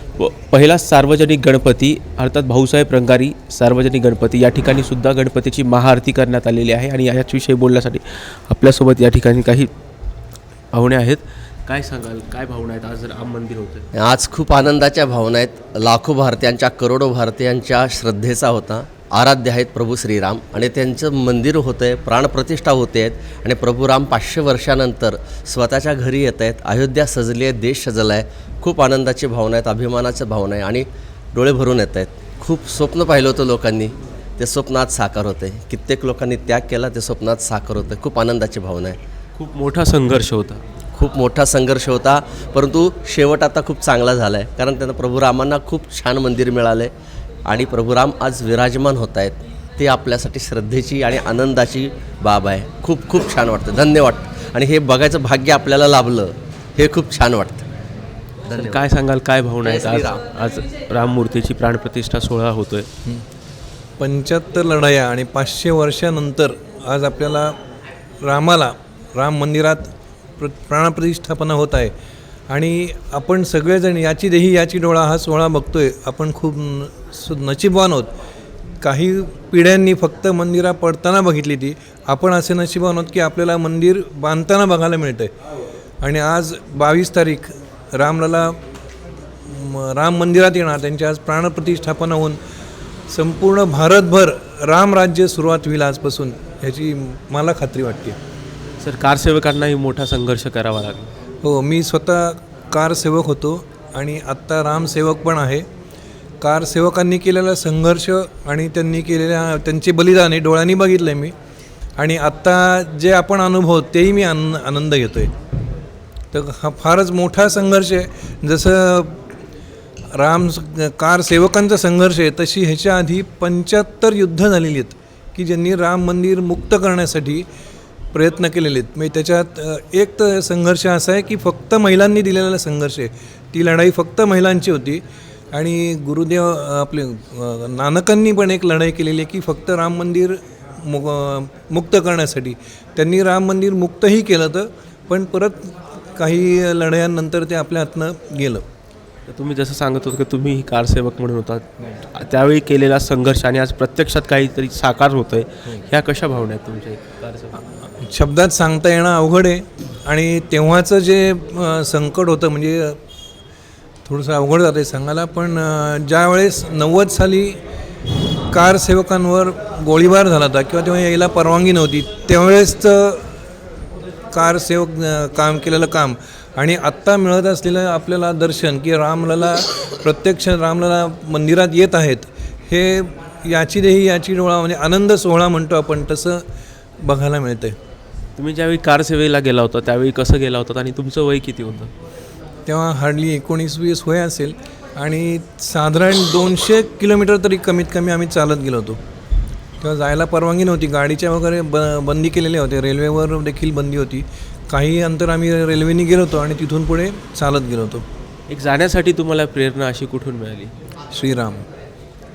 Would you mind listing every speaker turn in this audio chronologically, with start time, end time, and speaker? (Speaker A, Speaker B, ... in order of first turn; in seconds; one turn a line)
Speaker A: 0.2-9.7
Speaker A: 10.7-13.8
Speaker B: 13.9-39.0
Speaker A: 39.4-40.6
Speaker B: 40.9-46.9
Speaker B: 47.4-57.7
Speaker B: 58.5-58.9
Speaker A: 58.5-62.9
Speaker B: 59.6-60.2
Speaker C: 64.0-67.5
Speaker C: 68.2-71.9
Speaker C: 72.5-78.1
Speaker C: 78.8-85.3
Speaker C: 86.0-88.6
Speaker C: 89.5-92.4
Speaker C: 93.1-98.2
Speaker A: 98.8-101.1
Speaker C: 101.4-105.6
Speaker C: 106.4-111.3
Speaker C: 112.0-115.3
Speaker C: 116.3-119.2
Speaker C: 120.1-127.4
Speaker C: 128.1-135.0
Speaker C: 135.5-148.6
Speaker A: 149.3-157.6
Speaker C: 158.0-163.0
Speaker C: 164.1-167.6
Speaker C: 168.5-173.2
Speaker C: 174.3-186.4
Speaker C: 187.0-187.7
Speaker A: 188.4-191.9
Speaker C: 192.7-199.0
Speaker C: 199.8-208.0
Speaker A: 208.5-210.7
Speaker C: 211.1-211.6